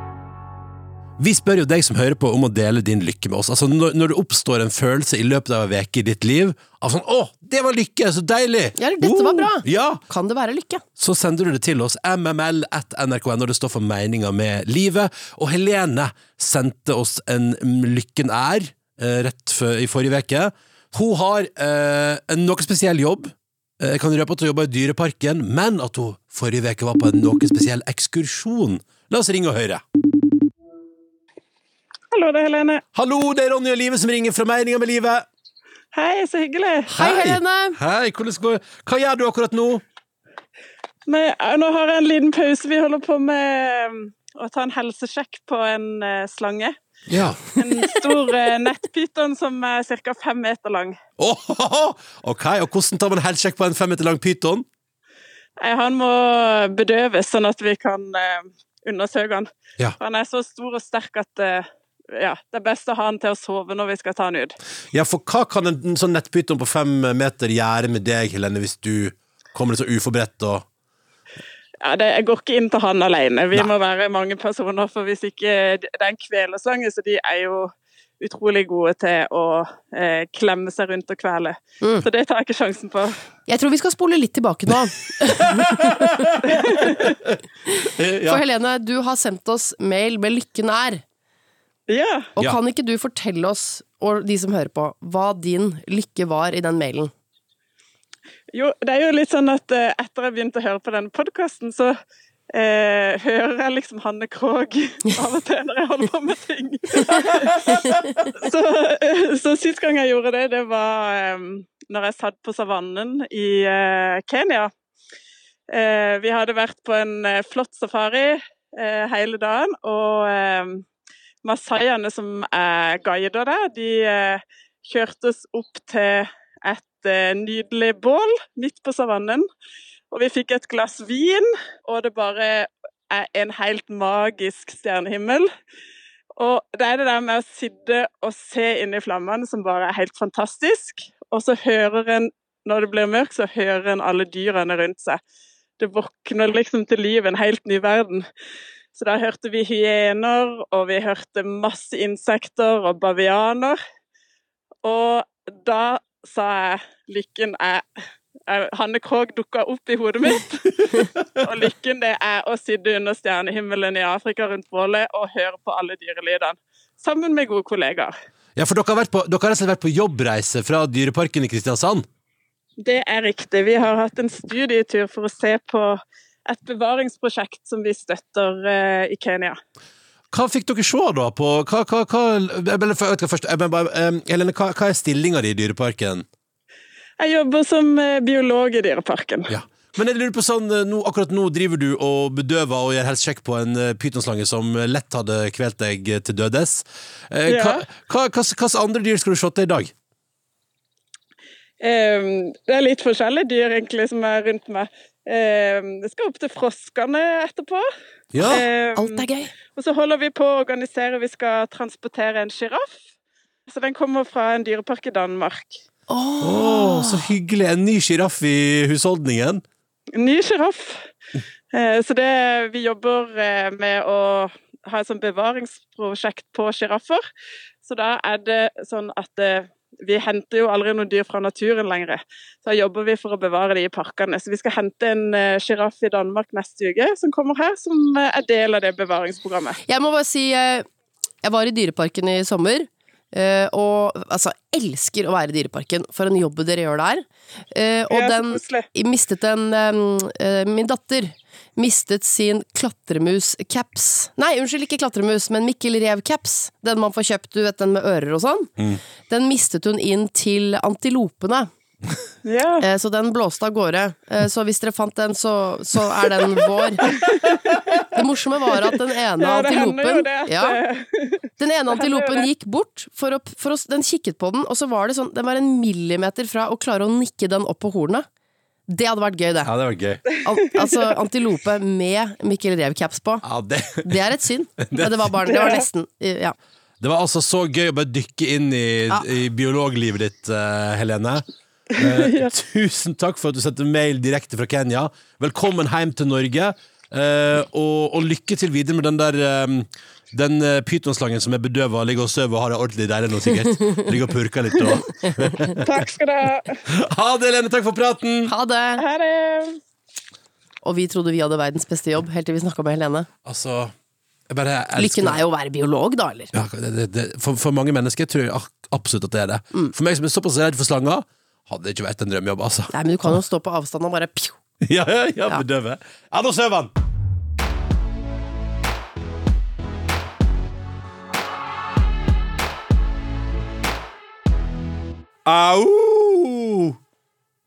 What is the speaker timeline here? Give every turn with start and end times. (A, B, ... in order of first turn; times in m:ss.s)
0:01.2-0:10.0 A
0:08.8-0:10.8 B
0:11.0-0:29.8 A
0:32.1-0:32.8 C
0:32.9-0:35.3 A
0:35.9-0:36.9 C
0:36.9-0:39.8 A
0:37.0-0:37.8 B
0:41.1-0:46.7 C
0:47.1-0:47.5 A
0:47.5-0:51.0 C
0:51.2-0:54.6 A
0:55.6-0:59.5 C
1:00.0-1:04.6 C
1:04.9-1:10.6 A
1:11.8-1:23.2 C
1:23.5-1:26.9 B
1:25.4-1:28.4 A
1:26.5-1:27.1 C
1:27.7-1:31.0 B
1:31.9-1:32.3 C
1:32.4-1:37.1 B
1:38.5-1:41.9 C
1:42.5-1:54.7 C
1:47.7-1:48.1 B
1:55.7-2:00.8 C
2:01.4-2:09.4 C
2:10.1-2:15.5 C
2:16.4-2:25.2 C
2:25.8-2:28.2 C
2:28.9-2:33.8 C
2:34.8-2:37.8 C
2:38.5-2:48.1 C
2:48.6-2:52.0 A
2:52.8-2:59.6 C
3:00.3-3:06.2 A
3:07.2-3:09.5 C
3:09.5-3:19.9 A
3:17.5-3:17.8 C
3:21.8-3:27.9 C
3:28.3-3:28.6 A
3:28.4-3:29.5 B
3:28.4-3:29.2 C
3:29.7-3:33.0 C
3:33.7-3:35.8 C
3:36.1-3:37.3 B
3:36.4-3:39.6 A
3:40.1-3:41.1 C
3:41.7-3:47.2 C
3:47.8-3:59.8 C
3:59.8-4:00.8 B
4:01.4-4:18.7 B
4:08.1-4:08.9 C
4:19.3-4:21.7 B
4:22.4-4:22.8 C
4:22.8-4:27.4 B
4:27.0-4:28.0 C
4:27.9-4:30.8 B
4:29.4-4:32.5 C
4:31.6-4:38.2 B
4:38.9-4:39.7 B
4:39.6-4:40.2 A
4:40.4-4:43.4 B
4:43.4-4:44.2 A
4:44.0-4:46.6 B
4:44.8-4:45.3 A
4:45.4-4:45.8 C
4:47.0-4:51.4 A
4:52.0-5:06.0 A
4:52.0-4:52.5 C
5:05.7-5:06.8 C
5:06.9-5:08.5 A
5:08.4-5:09.0 B
5:09.0-5:09.8 C
5:10.8-5:13.3 B
5:13.4-5:13.9 A
5:14.5-5:15.4 A
5:15.0-5:16.5 B
5:16.5-5:23.4 A
5:22.9-5:24.6 B
5:24.8-5:26.9 A
5:35.4-5:37.0 A